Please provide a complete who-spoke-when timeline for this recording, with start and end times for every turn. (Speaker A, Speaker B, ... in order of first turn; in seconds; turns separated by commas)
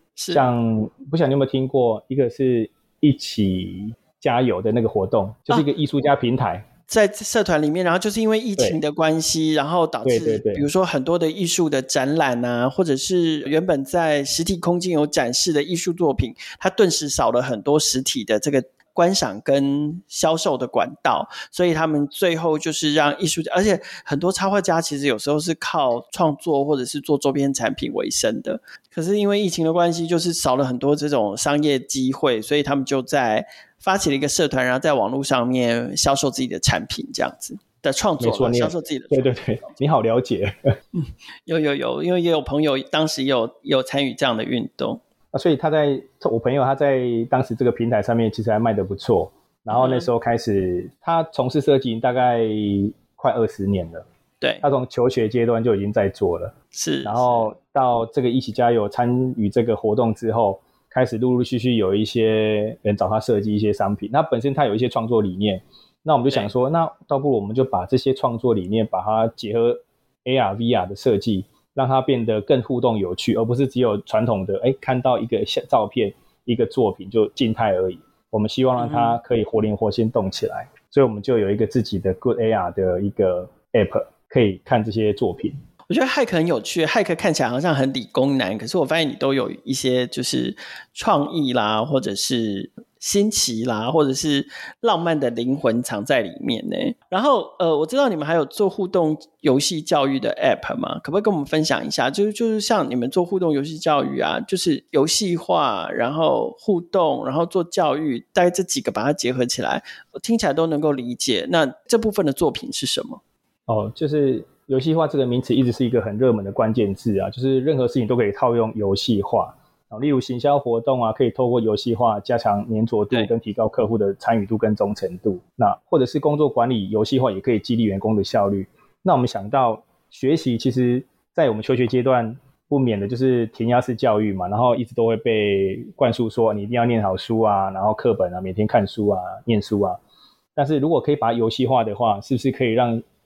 Speaker A: 0.2-0.5, Speaker B: 0.3-6.7, Speaker A: 6.9-39.3, Speaker B: 10.0-10.7, Speaker B: 38.2-40.6, Speaker A: 41.5-45.0, Speaker B: 45.3-54.0, Speaker A: 49.7-50.1, Speaker B: 54.6-85.6, Speaker A: 56.7-57.5, Speaker A: 78.8-79.2, Speaker A: 85.9-113.2, Speaker B: 113.7-140.0, Speaker B: 140.6-143.0